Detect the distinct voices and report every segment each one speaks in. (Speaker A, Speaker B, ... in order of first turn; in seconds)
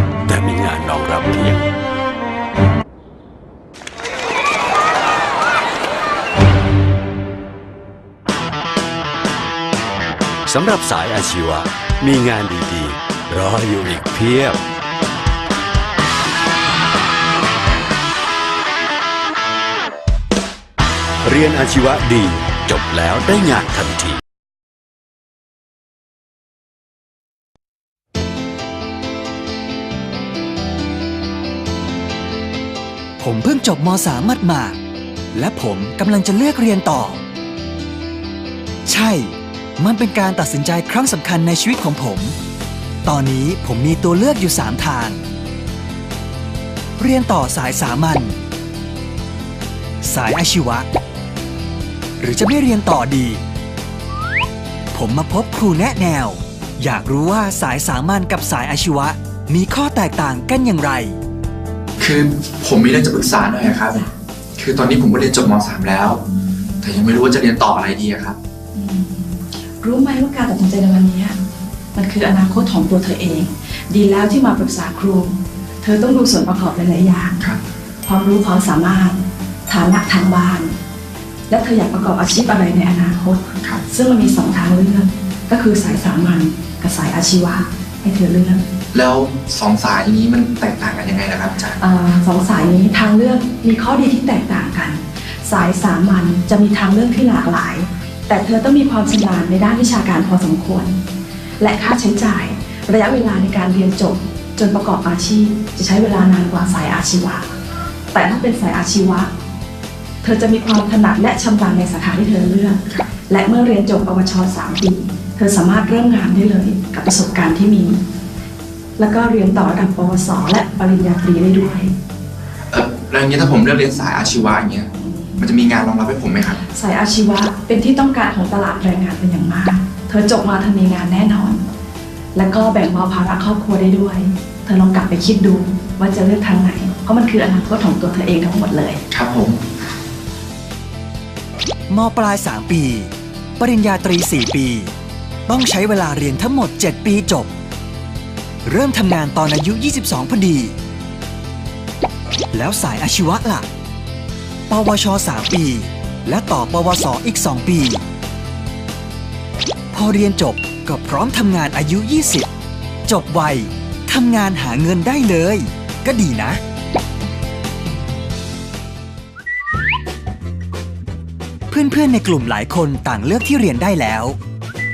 Speaker A: 0.2-1.7, 10.5-14.6, 21.2-24.2
Speaker B: 33.2-34.8, 35.3-37.2, 38.9-42.4, 43.0-45.2, 47.0-48.4, 50.0-50.9, 52.2-53.4, 54.9-61.2, 141.9-144.9, 145.5-147.5, 148.7-150.8, 152.5-153.7, 154.7-158.0, 159.9-162.5, 163.1-166.6, 171.7-174.4
Speaker C: 62.0-64.0, 64.6-66.2, 66.8-68.4, 88.9-91.8, 122.7-126.6, 139.1-139.6
Speaker D: 68.7-71.4, 72.0-77.4, 78.0-80.8, 81.5-88.7, 91.8-101.0, 101.6-107.5, 108.1-109.3, 110.2-118.0, 119.0-121.9, 125.0-125.5, 126.7-131.7, 132.4-139.0